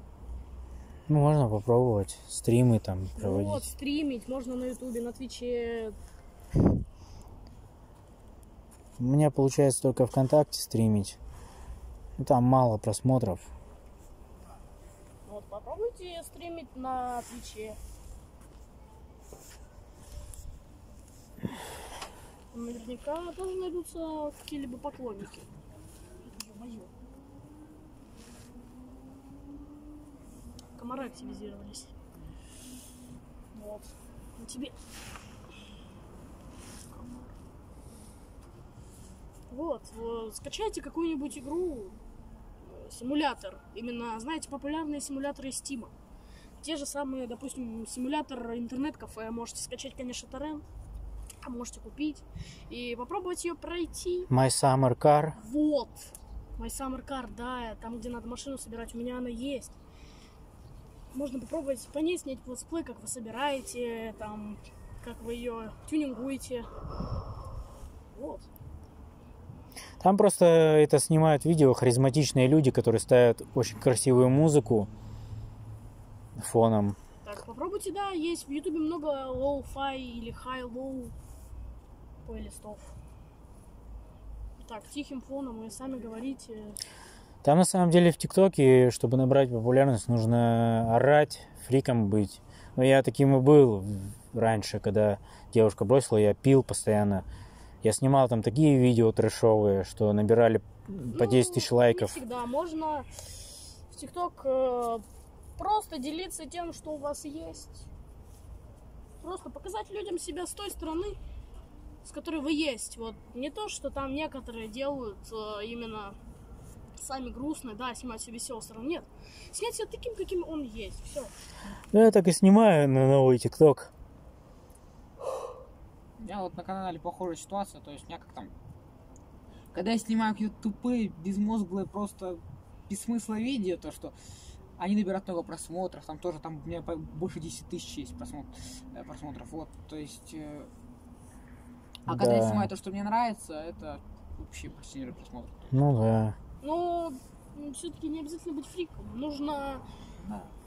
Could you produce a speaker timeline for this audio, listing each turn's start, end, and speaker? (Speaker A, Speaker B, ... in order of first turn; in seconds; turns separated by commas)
Speaker A: 1.1-3.7, Speaker B: 3.2-6.0, Speaker A: 9.0-11.2, Speaker A: 12.2-13.5, Speaker B: 15.2-17.8, Speaker B: 22.5-25.5, Speaker B: 26.2-26.9, Speaker B: 30.8-31.9, Speaker B: 33.5-34.8, Speaker B: 36.9-37.3, Speaker B: 39.5-42.0, Speaker B: 42.6-45.9, Speaker B: 46.6-50.6, Speaker B: 51.4-54.3, Speaker A: 54.3-55.4, Speaker B: 55.4-59.8, Speaker B: 61.1-66.7, Speaker B: 68.1-68.5, Speaker A: 70.0-74.9, Speaker A: 76.3-77.0, Speaker B: 77.2-81.1, Speaker B: 82.2-83.0, Speaker B: 84.6-86.8, Speaker A: 87.4-97.2, Speaker A: 97.8-102.2, Speaker B: 101.1-105.0, Speaker B: 105.6-107.9, Speaker B: 109.2-111.2, Speaker B: 112.0-116.2, Speaker B: 117.0-121.3, Speaker A: 121.9-123.9, Speaker C: 126.2-128.5, Speaker C: 129.7-134.1, Speaker C: 134.8-140.7, Speaker C: 142.1-145.7, Speaker A: 142.1-142.7, Speaker A: 145.7-146.4, Speaker B: 146.6-149.8, Speaker C: 150.2-150.5